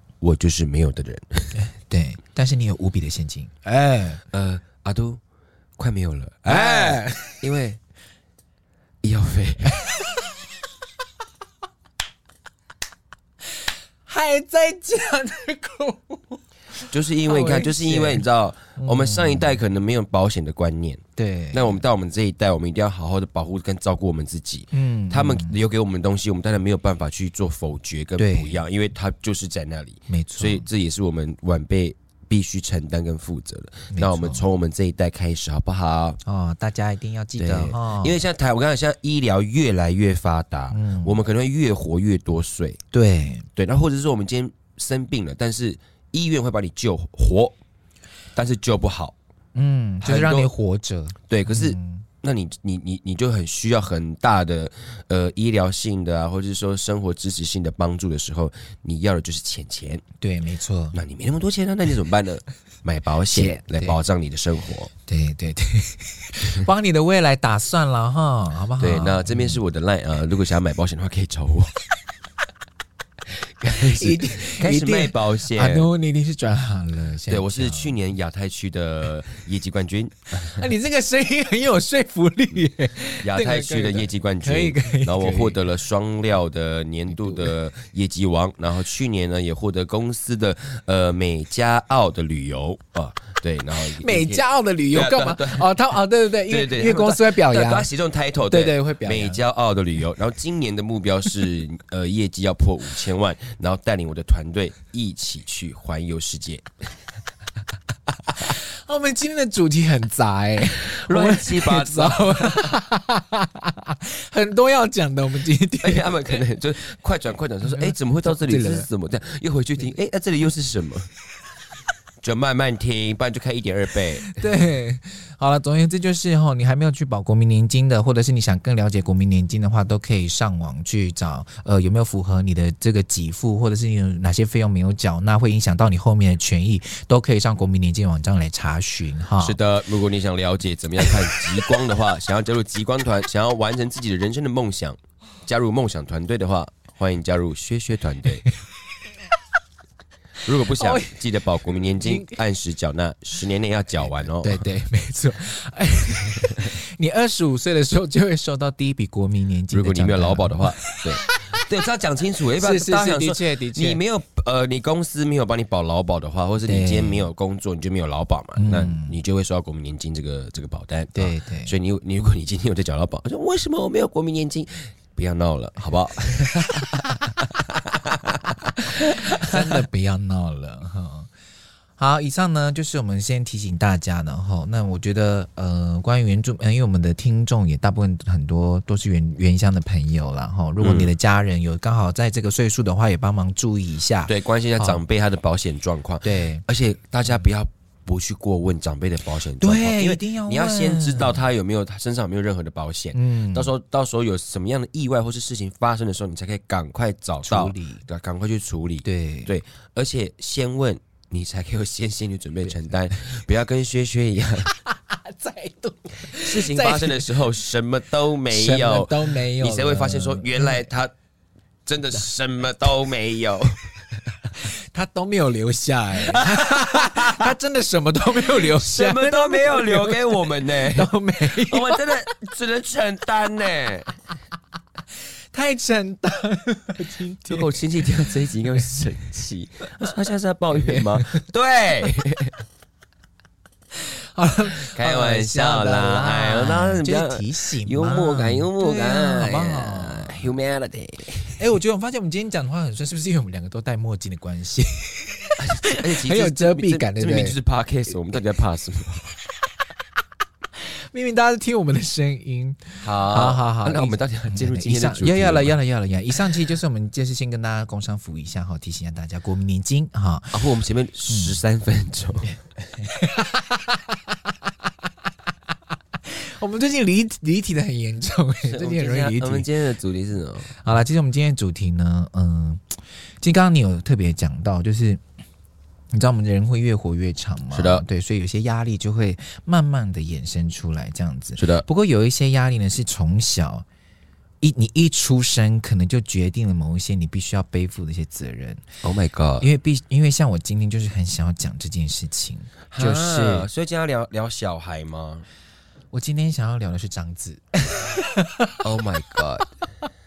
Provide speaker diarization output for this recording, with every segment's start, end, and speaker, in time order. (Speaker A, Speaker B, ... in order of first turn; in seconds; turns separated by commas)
Speaker A: 0.2-1.6, Speaker B: 1.5-4.2, Speaker A: 4.3-5.2, Speaker A: 5.8-7.8, Speaker B: 6.5-7.4, Speaker A: 9.0-9.8, Speaker B: 9.7-10.3, Speaker B: 14.1-18.2, Speaker A: 16.9-21.0, Speaker B: 18.8-19.6, Speaker B: 21.2-21.8, Speaker A: 21.5-36.2, Speaker B: 24.7-25.6, Speaker B: 28.2-28.6, Speaker B: 30.1-30.7, Speaker B: 33.9-34.5, Speaker B: 36.2-38.2, Speaker A: 37.4-42.8, Speaker B: 40.7-41.2, Speaker B: 42.9-43.5, Speaker A: 43.5-47.5, Speaker A: 48.3-49.1, Speaker B: 49.5-52.0, Speaker A: 50.0-50.5, Speaker A: 51.3-60.0, Speaker B: 60.2-61.0, Speaker A: 60.9-64.9, Speaker B: 63.3-64.0, Speaker B: 65.1-69.6, Speaker A: 68.8-71.7, Speaker A: 73.6-75.9, Speaker B: 73.7-78.0, Speaker A: 77.3-80.7, Speaker B: 80.4-85.6, Speaker A: 83.2-95.7, Speaker B: 87.1-87.5, Speaker B: 94.0-99.4, Speaker A: 96.5-106.7, Speaker B: 108.4-116.5, Speaker A: 110.9-112.7, Speaker A: 115.8-121.1, Speaker B: 117.6-118.9, Speaker A: 122.2-124.4, Speaker B: 124.3-139.6, Speaker A: 139.4-148.4, Speaker B: 141.1-141.4, Speaker A: 150.4-154.7, Speaker B: 150.5-151.1, Speaker B: 152.0-152.4, Speaker B: 154.2-161.7, Speaker A: 159.7-179.8, Speaker B: 162.5-164.0, Speaker B: 166.6-167.3, Speaker B: 168.6-169.2, Speaker B: 171.1-171.8, Speaker B: 176.5-177.3, Speaker B: 178.8-181.3, Speaker B: 182.0-195.0, Speaker A: 190.8-191.1, Speaker A: 194.2-214.7, Speaker B: 196.2-196.6, Speaker B: 199.6-201.4, Speaker B: 203.1-203.7, Speaker B: 207.4-208.0, Speaker B: 209.0-209.5, Speaker B: 214.7-217.4, Speaker A: 216.3-221.1, Speaker B: 218.5-220.9, Speaker A: 221.8-223.8, Speaker B: 224.5-232.5, Speaker A: 226.1-227.5, Speaker A: 228.3-234.1, Speaker B: 235.5-238.1, Speaker A: 237.5-242.6, Speaker B: 240.7-241.4, Speaker B: 243.9-250.5, Speaker A: 244.9-251.6, Speaker B: 251.6-257.6, Speaker A: 255.6-259.3, Speaker B: 260.8-270.7, Speaker A: 263.0-265.7, Speaker A: 270.5-272.5, Speaker B: 271.3-271.6, Speaker B: 272.9-274.5, Speaker B: 276.2-279.7, Speaker A: 278.6-280.7, Speaker B: 280.7-285.2, Speaker B: 286.1-293.8, Speaker A: 287.7-288.0, Speaker A: 291.6-291.8, Speaker B: 294.6-298.8, Speaker A: 299.0-299.7, Speaker B: 299.6-303.7, Speaker A: 302.9-305.4, Speaker B: 306.1-308.8, Speaker A: 308.8-309.7